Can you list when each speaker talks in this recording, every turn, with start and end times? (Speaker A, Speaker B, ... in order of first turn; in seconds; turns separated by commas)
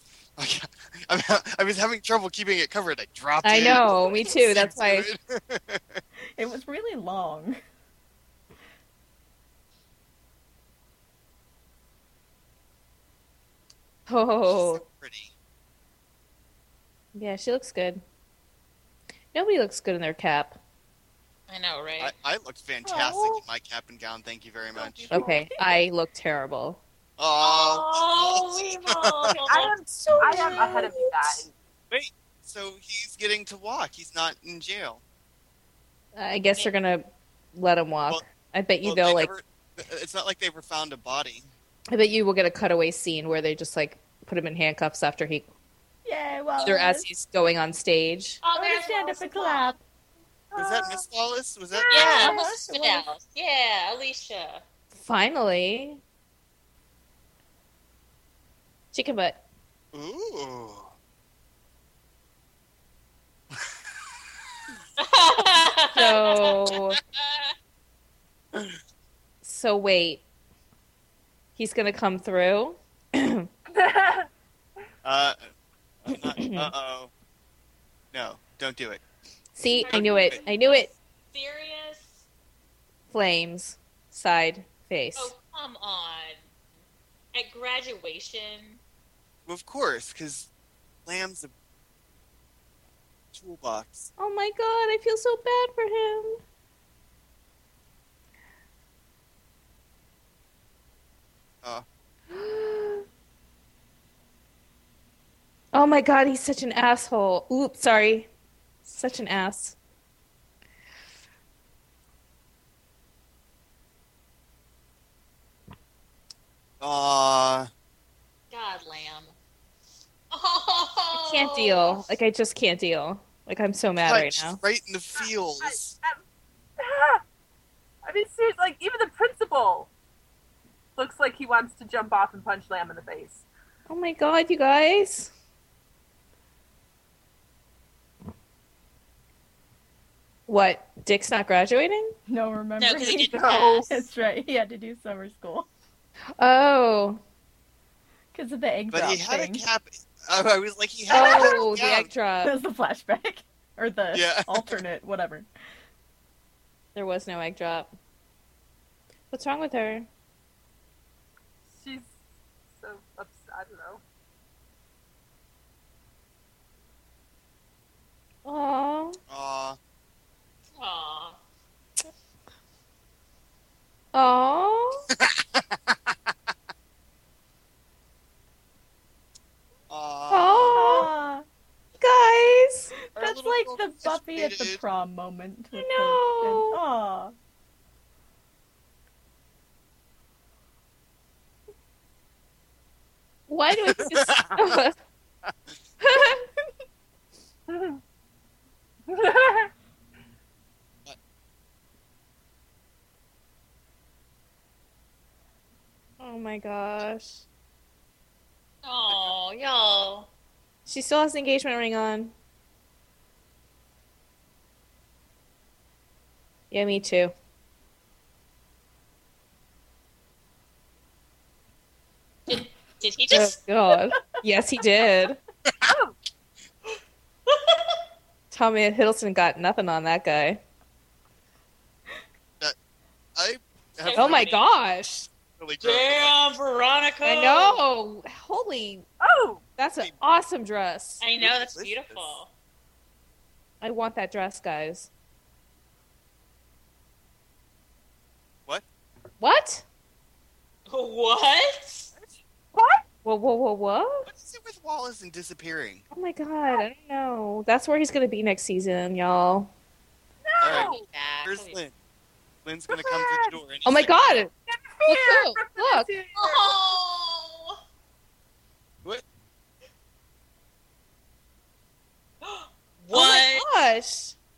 Speaker A: 0.4-6.0, Speaker B: 3.4-5.1, Speaker C: 6.4-7.6, Speaker B: 14.1-14.8, Speaker A: 14.5-15.3, Speaker B: 17.1-18.0, Speaker B: 19.3-20.6, Speaker D: 21.5-22.1, Speaker A: 22.0-25.1, Speaker E: 24.8-25.5, Speaker B: 25.1-26.8, Speaker A: 27.2-29.4, Speaker D: 27.4-29.7, Speaker E: 29.5-31.5, Speaker B: 29.9-31.4, Speaker C: 30.3-30.9, Speaker A: 31.9-35.0, Speaker B: 36.1-39.3, Speaker A: 38.8-41.5, Speaker B: 41.9-45.5, Speaker C: 46.0-47.1, Speaker B: 46.6-48.4, Speaker D: 48.4-49.7, Speaker C: 48.5-49.8, Speaker E: 50.5-51.0, Speaker A: 50.6-52.2, Speaker E: 51.7-52.3, Speaker D: 51.9-54.6, Speaker C: 52.0-53.1, Speaker B: 54.9-56.0, Speaker B: 58.9-59.4, Speaker A: 59.9-60.9, Speaker D: 65.0-67.5, Speaker B: 65.9-67.0, Speaker B: 69.4-70.2, Speaker B: 71.6-73.5, Speaker E: 73.7-74.3, Speaker A: 75.0-75.4, Speaker A: 76.0-77.1, Speaker B: 76.1-76.7, Speaker A: 78.1-79.0, Speaker B: 79.5-80.9, Speaker D: 79.8-82.2, Speaker A: 79.9-80.4, Speaker B: 83.1-85.3, Speaker D: 85.2-86.4, Speaker D: 87.3-88.8, Speaker A: 89.5-90.5, Speaker A: 91.1-91.5, Speaker A: 93.3-94.1, Speaker B: 94.2-96.4, Speaker B: 102.3-103.0, Speaker B: 105.7-108.3, Speaker B: 108.8-109.8, Speaker A: 116.8-117.7, Speaker D: 118.5-119.3, Speaker D: 120.3-122.1, Speaker B: 121.2-124.6, Speaker A: 124.0-126.0, Speaker E: 125.2-126.2, Speaker E: 126.8-127.2, Speaker E: 128.0-129.9, Speaker E: 131.0-133.4, Speaker B: 133.9-135.3, Speaker B: 140.5-142.1, Speaker C: 142.3-145.7, Speaker D: 142.8-144.1, Speaker E: 143.3-143.9, Speaker B: 146.4-147.2, Speaker C: 148.3-149.6, Speaker A: 148.9-152.1, Speaker B: 151.1-152.5, Speaker C: 151.1-151.6, Speaker C: 152.4-155.5, Speaker A: 154.1-154.8, Speaker B: 156.9-157.9, Speaker B: 159.3-160.1, Speaker E: 161.7-162.1, Speaker E: 162.8-164.0, Speaker B: 168.4-169.2, Speaker A: 169.3-169.8, Speaker D: 170.8-171.4, Speaker B: 174.1-175.1, Speaker A: 175.1-176.2, Speaker A: 179.9-181.1, Speaker B: 180.3-181.1, Speaker C: 180.8-181.4, Speaker B: 182.0-182.9, Speaker C: 183.2-187.3, Speaker A: 183.2-184.8, Speaker B: 185.8-186.8, Speaker B: 193.5-194.9, Speaker A: 193.9-194.8, Speaker B: 196.0-196.5, Speaker E: 197.7-198.0, Speaker E: 199.1-199.7, Speaker B: 206.2-207.4, Speaker D: 208.8-210.3, Speaker B: 210.9-212.3, Speaker B: 216.7-217.3, Speaker D: 222.5-223.6, Speaker B: 223.3-225.4, Speaker E: 225.8-226.2, Speaker D: 227.5-228.0, Speaker B: 228.5-230.6, Speaker A: 233.4-234.5, Speaker D: 234.0-234.7, Speaker B: 234.1-235.3, Speaker A: 235.5-236.4, Speaker D: 235.8-237.8, Speaker B: 237.2-239.1, Speaker E: 239.2-239.6, Speaker B: 239.8-241.2, Speaker D: 241.2-242.5, Speaker A: 241.4-242.4, Speaker B: 243.8-245.1, Speaker B: 249.4-249.8, Speaker D: 250.9-252.1, Speaker E: 252.7-253.1, Speaker B: 253.2-254.3, Speaker A: 254.3-256.0, Speaker B: 256.1-259.7, Speaker E: 260.4-261.1, Speaker A: 260.6-261.9, Speaker D: 260.7-261.8, Speaker A: 262.6-264.4, Speaker E: 262.9-263.6, Speaker B: 263.9-264.5, Speaker E: 264.7-266.8, Speaker B: 265.1-266.1, Speaker D: 266.4-267.8, Speaker D: 272.4-273.8, Speaker B: 273.1-274.4